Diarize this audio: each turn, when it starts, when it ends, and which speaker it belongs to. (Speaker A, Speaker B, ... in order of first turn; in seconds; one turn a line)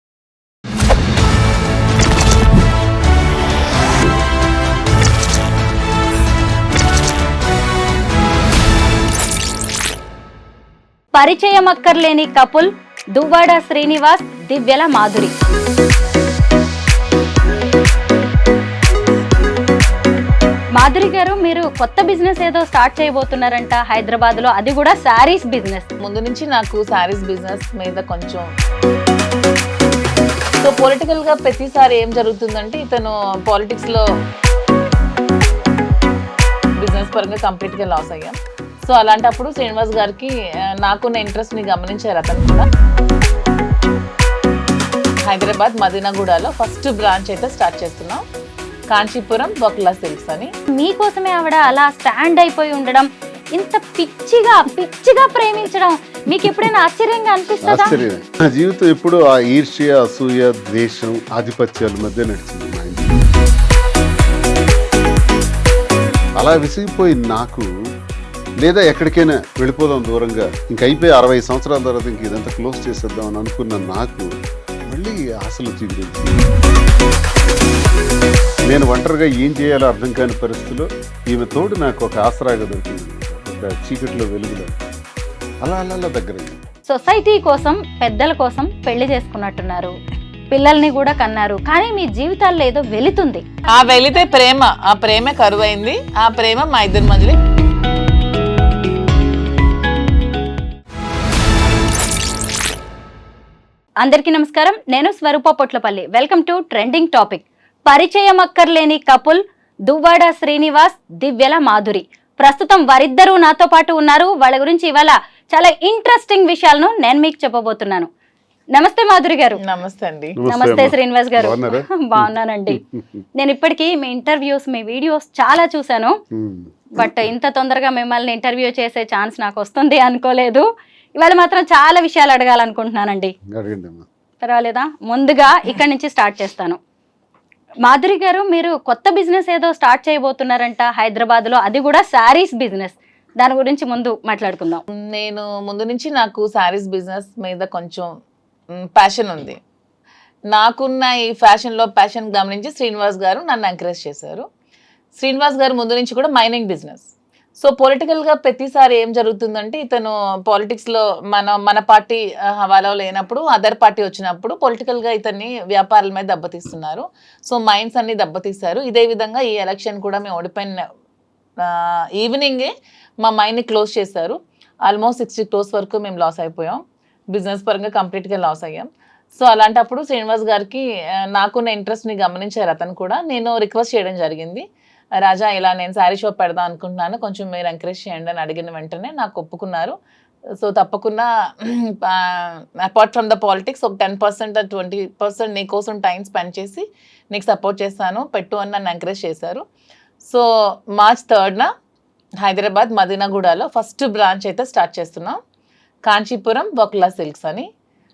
Speaker A: 11.1-15.3
Speaker A: 20.8-25.9
Speaker B: 26.0-28.5
Speaker B: 30.6-34.0
Speaker B: 36.8-42.7
Speaker B: 45.3-48.2
Speaker B: 48.9-50.5
Speaker A: 50.7-58.0
Speaker C: 57.6-63.1
Speaker C: 66.4-67.7
Speaker C: 68.6-74.3
Speaker C: 74.9-76.4
Speaker C: 78.7-84.7
Speaker C: 85.6-86.6
Speaker A: 86.9-89.9
Speaker A: 90.5-93.5
Speaker B: 93.7-97.4
Speaker A: 104.0-118.1
Speaker A: 118.7-119.6
Speaker B: 119.6-120.4
Speaker C: 120.4-122.8
Speaker A: 120.5-122.8
Speaker A: 123.4-126.2
Speaker C: 126.3-127.2
Speaker A: 127.0-130.6
Speaker A: 131.2-133.3
Speaker C: 133.5-134.1
Speaker A: 134.4-136.8
Speaker A: 137.9-144.8
Speaker B: 145.0-148.1
Speaker B: 148.9-149.6
Speaker B: 150.5-154.5
Speaker B: 155.2-170.8
Speaker B: 171.6-176.8
Speaker B: 177.3-184.7
Speaker B: 185.2-190.0
Speaker B: 190.6-199.6
Speaker B: 200.2-201.7
Speaker B: 202.4-205.4
Speaker B: 206.1-207.7